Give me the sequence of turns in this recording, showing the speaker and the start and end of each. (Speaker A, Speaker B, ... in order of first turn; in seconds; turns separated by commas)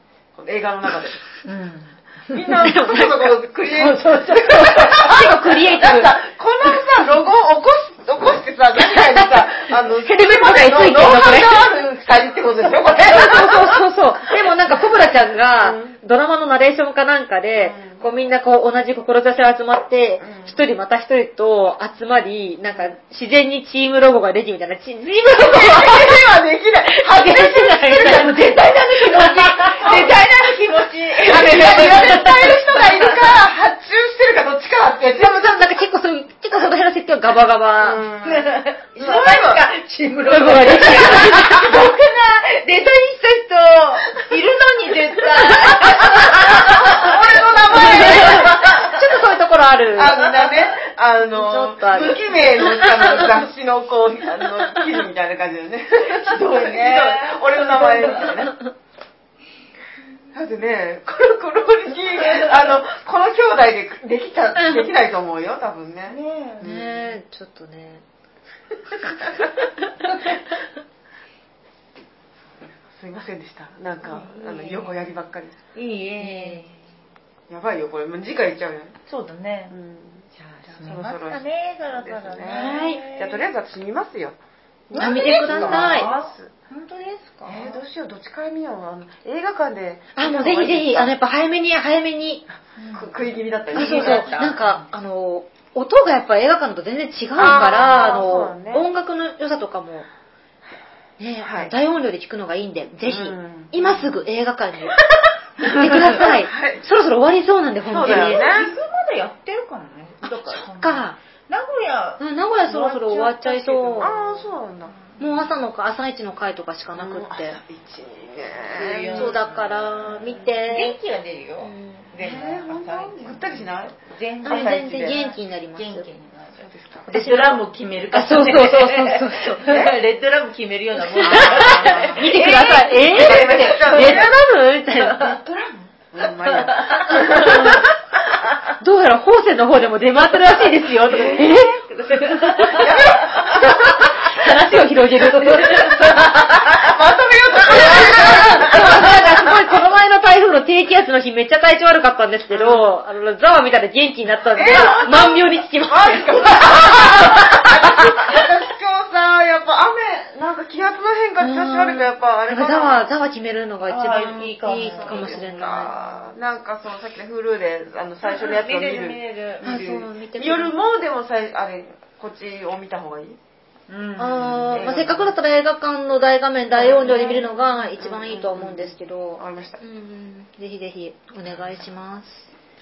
Speaker A: 0.3-1.3, Speaker B: 1.4-2.6, Speaker A: 2.3-13.8, Speaker C: 2.6-3.4, Speaker B: 3.7-5.0, Speaker C: 4.3-6.2, Speaker C: 8.8-11.7, Speaker C: 12.8-26.1, Speaker A: 15.6-16.0, Speaker A: 17.6-18.0, Speaker A: 20.2-20.6, Speaker A: 25.2-28.2, Speaker C: 26.9-30.1, Speaker B: 27.2-33.4, Speaker A: 29.8-30.1, Speaker A: 31.2-35.8, Speaker C: 31.3-32.2, Speaker C: 35.1-38.0, Speaker A: 37.8-39.7, Speaker B: 38.2-48.9, Speaker C: 40.3-41.7, Speaker C: 45.8-46.1, Speaker A: 46.1-48.6, Speaker C: 47.8-50.2, Speaker A: 49.9-58.5, Speaker B: 50.2-50.7, Speaker C: 51.3-53.3, Speaker B: 56.0-58.4, Speaker A: 60.3-67.1, Speaker B: 66.0-66.6, Speaker C: 66.6-68.0, Speaker C: 68.9-70.3, Speaker A: 72.8-75.6, Speaker B: 74.0-75.1, Speaker B: 75.7-76.8, Speaker C: 76.2-76.7, Speaker A: 77.5-79.0, Speaker B: 79.1-79.7, Speaker A: 79.7-84.4, Speaker B: 80.7-83.4, Speaker C: 82.5-83.0, Speaker A: 84.9-86.5, Speaker B: 84.9-87.8, Speaker C: 85.0-86.1, Speaker A: 87.4-91.1, Speaker C: 90.2-92.4, Speaker B: 92.8-94.9, Speaker A: 92.9-94.3, Speaker C: 93.7-100.1, Speaker A: 97.3-98.9, Speaker C: 101.2-105.0, Speaker A: 101.4-101.7, Speaker A: 103.0-104.0, Speaker C: 105.6-108.5, Speaker A: 105.7-106.8, Speaker A: 107.9-108.7, Speaker B: 108.0-115.5, Speaker C: 110.2-111.2, Speaker C: 112.2-114.1, Speaker A: 114.0-114.9, Speaker C: 115.2-117.6, Speaker A: 117.0-119.4, Speaker B: 118.7-134.3, Speaker C: 119.1-121.0, Speaker A: 120.2-120.5, Speaker C: 121.6-122.1, Speaker A: 122.2-125.2, Speaker C: 124.4-126.1, Speaker A: 126.6-127.2, Speaker C: 127.1-127.6, Speaker C: 128.1-129.8, Speaker A: 129.6-130.0, Speaker C: 131.0-135.3, Speaker A: 131.2-132.4, Speaker A: 133.0-134.5, Speaker A: 135.0-137.9, Speaker B: 136.3-137.9, Speaker C: 137.2-137.8, Speaker C: 138.8-146.3, Speaker A: 141.1-142.0, Speaker B: 141.3-143.8, Speaker A: 142.7-144.0, Speaker B: 145.2-146.9, Speaker A: 146.7-149.7, Speaker C: 147.7-158.4, Speaker B: 147.9-148.2, Speaker A: 152.5-152.9, Speaker A: 154.5-163.1, Speaker C: 161.4-165.9, Speaker B: 163.9-165.4, Speaker A: 164.8-173.4, Speaker B: 168.2-169.7, Speaker C: 169.6-170.7, Speaker B: 173.9-175.0, Speaker C: 174.2-182.5, Speaker A: 174.7-175.3, Speaker A: 176.7-179.8, Speaker B: 176.8-177.5